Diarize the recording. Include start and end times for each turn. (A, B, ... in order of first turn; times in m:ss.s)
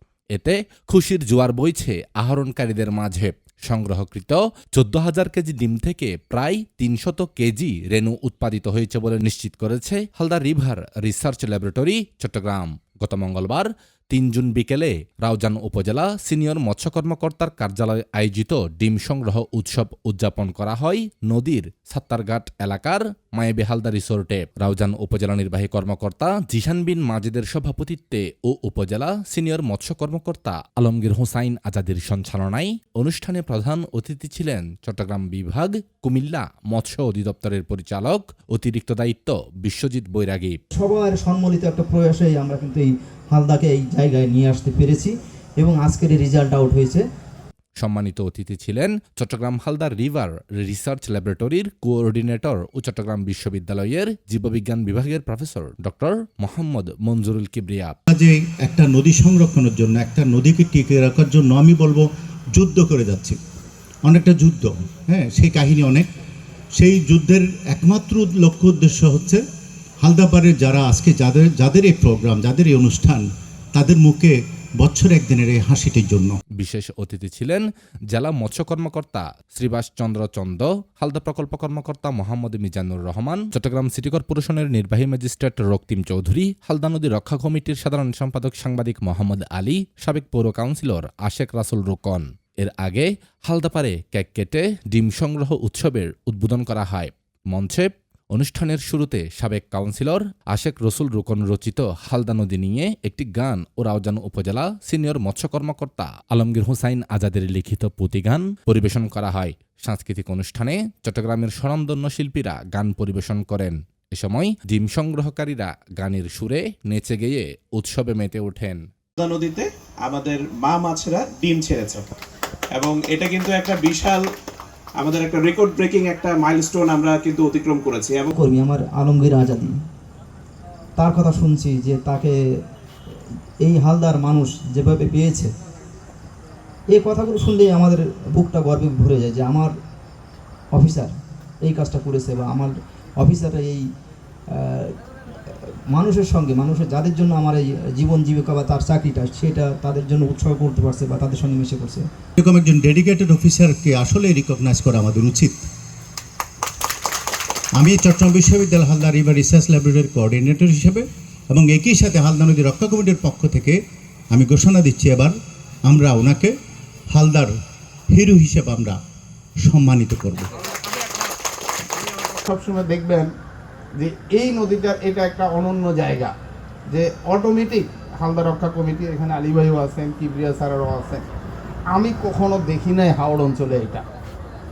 0:00.3-0:40.6 A
0:40.8-0:47.0 B
0:47.8-0:57.9 A
0:58.1-1:03.4 C
1:04.1-1:06.1 C
1:06.8-1:09.4 C
1:10.0-1:16.4 C
1:16.6-1:58.8 A
1:59.2-2:02.1 D
2:02.7-2:04.3 D
2:05.0-2:08.3 D
2:08.3-2:09.7 B
2:11.0-2:12.3 B
2:13.6-2:15.5 B
2:16.9-2:19.7 B
2:20.7-2:23.8 B
2:24.5-2:32.0 B
2:32.4-2:35.7 C
2:37.8-2:43.8 C
2:44.3-2:45.3 C
2:45.8-2:46.5 C
2:47.1-2:47.5 C
2:48.1-2:49.0 C
2:49.6-2:50.5 C
2:52.4-2:53.3 E
2:54.0-2:56.3 E
2:56.9-3:01.2 E
3:01.9-3:04.0 E